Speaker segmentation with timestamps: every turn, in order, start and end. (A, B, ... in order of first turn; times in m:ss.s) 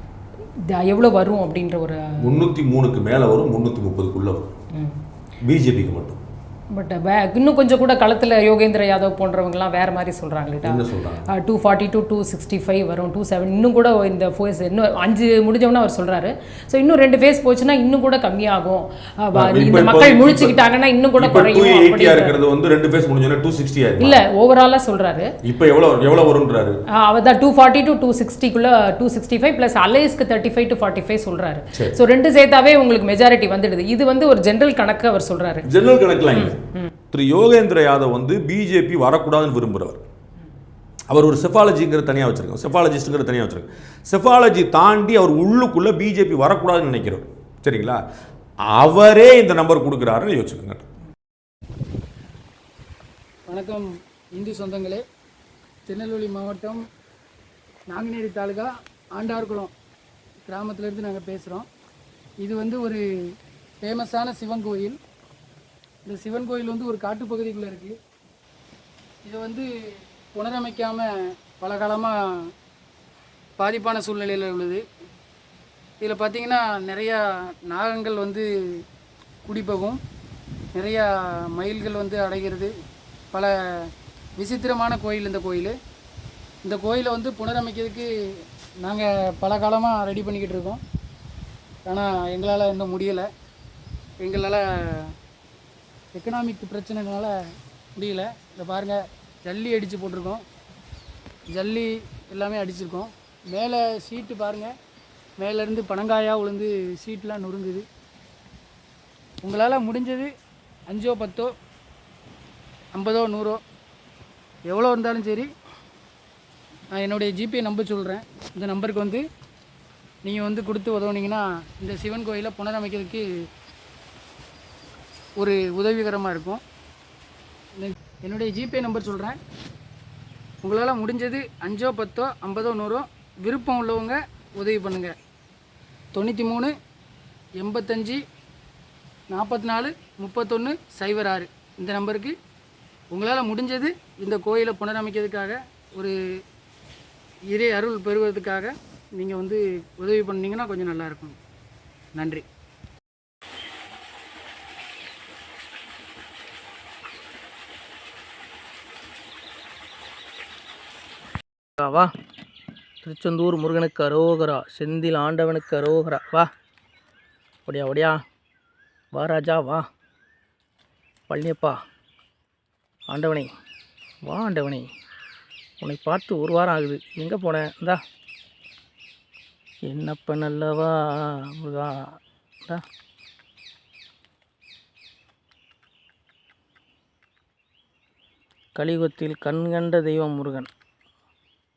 0:00.6-0:02.4 A
0:02.2-0:04.5 B
0:05.4-0:06.2 B
0:06.7-0:22.4 A
0:10.6-0:11.3 B
0:19.3-0:20.6 B
0:21.2-0:24.2 B
0:24.0-0:25.3 A
0:25.4-0:26.8 B
0:27.0-0:35.7 A
0:35.6-0:36.6 B
0:36.3-0:36.9 A
0:37.1-0:40.0 B
0:41.1-0:48.0 B
0:48.7-0:50.8 B
0:53.5-0:55.0 C
0:55.8-0:56.8 C
0:57.9-0:59.7 C
1:00.4-1:01.6 C
1:02.4-1:03.0 C
1:03.8-1:05.0 C
1:06.0-1:08.0 C
1:09.2-1:09.7 C
1:10.3-1:11.1 C
1:11.6-1:12.2 C
1:13.6-1:14.8 C
1:16.0-1:18.5 C
1:19.4-1:20.0 C
1:20.7-1:22.7 C
1:24.4-1:25.7 C
1:26.6-1:28.1 C
1:28.8-1:30.8 C
1:31.8-1:33.3 C
1:34.2-1:35.1 C
1:36.1-1:37.3 C
1:38.0-1:40.4 C
1:41.5-1:44.7 C
1:45.4-1:47.9 C
1:49.4-1:50.3 C
1:50.9-1:51.5 C
1:52.9-1:53.6 C
1:54.6-1:55.5 C
1:56.9-1:59.2 C
2:00.2-2:03.2 C
2:05.4-2:06.6 C
2:07.8-2:09.4 C
2:10.6-2:15.1 C
2:16.1-2:16.7 C
2:17.6-2:18.2 C
2:19.3-2:22.3 C
2:23.1-2:26.1 C
2:27.5-2:31.4 C
2:32.2-2:32.4 C
2:41.8-2:42.1 D
2:43.0-2:46.5 D
2:47.6-2:48.2 D
2:49.1-2:49.8 D
2:51.3-2:51.8 D
2:53.1-2:53.5 D
2:54.2-2:54.9 D
2:55.8-2:58.0 D
2:59.9-3:02.8 D
3:08.8-3:10.7 D